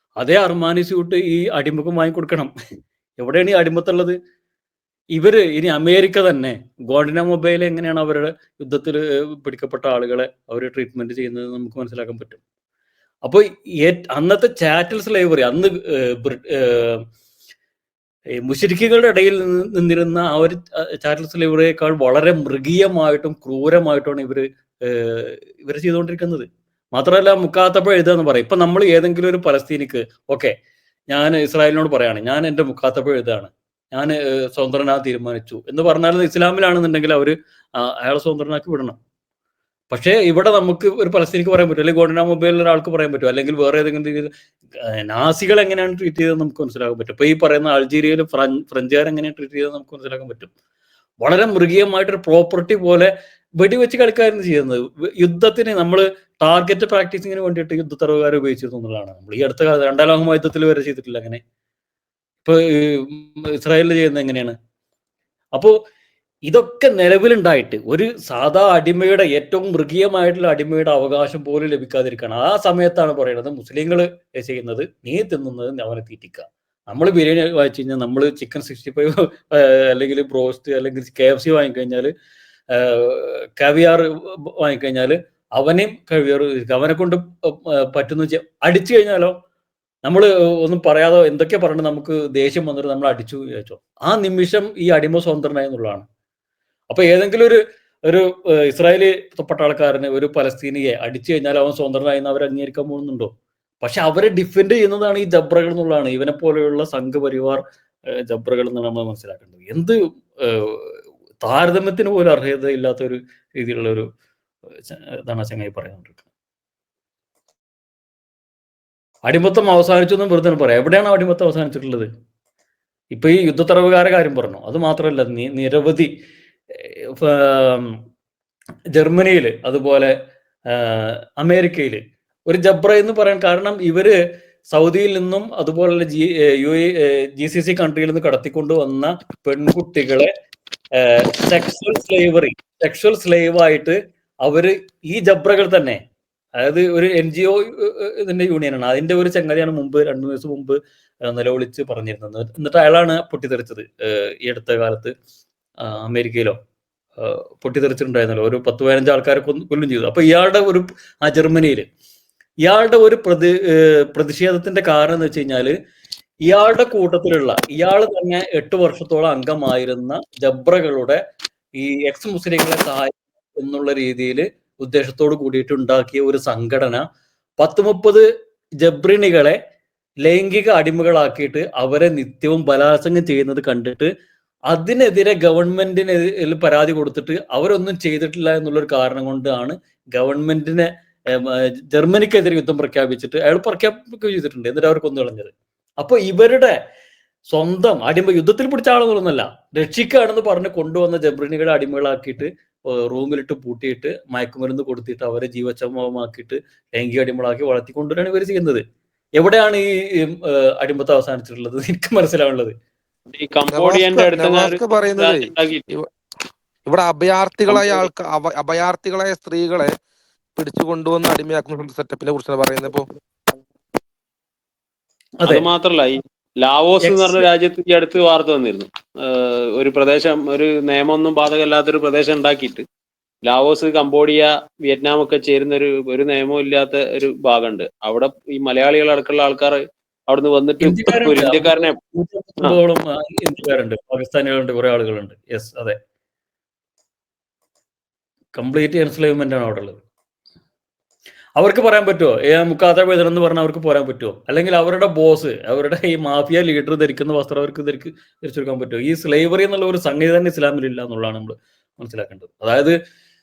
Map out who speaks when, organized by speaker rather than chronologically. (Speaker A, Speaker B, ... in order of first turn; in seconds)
Speaker A: 0.2-2.5, 3.2-4.2, 5.1-12.4, 13.2-17.0, 18.4-30.5, 31.1-39.0, 39.9-44.3, 45.1-50.5, 51.2-61.4, 62.5-64.5, 66.5-82.1, 82.7-89.3, 90.0-96.1, 96.9-103.3, 103.8-109.9, 110.5-114.0, 114.9-116.2, 119.3-122.1, 123.1-126.1, 126.7-127.9, 129.0-130.1, 130.7-134.1, 134.7-140.3, 141.0-146.0, 146.6-155.1, 155.8-156.6, 157.2-161.9, 162.6-165.7, 166.5-171.2, 171.8-177.0, 177.6-178.2, 178.8-179.6, 180.2-184.1, 184.7-196.7, 197.5-208.8, 209.4-212.7, 225.4-225.7, 227.0-227.5, 240.8-246.0, 248.6-250.0, 251.6-262.9
Speaker B: 213.3-215.8, 217.7-218.1, 225.4-232.8, 233.5-242.0
Speaker C: 213.7-216.1, 216.9-219.9, 220.6-223.1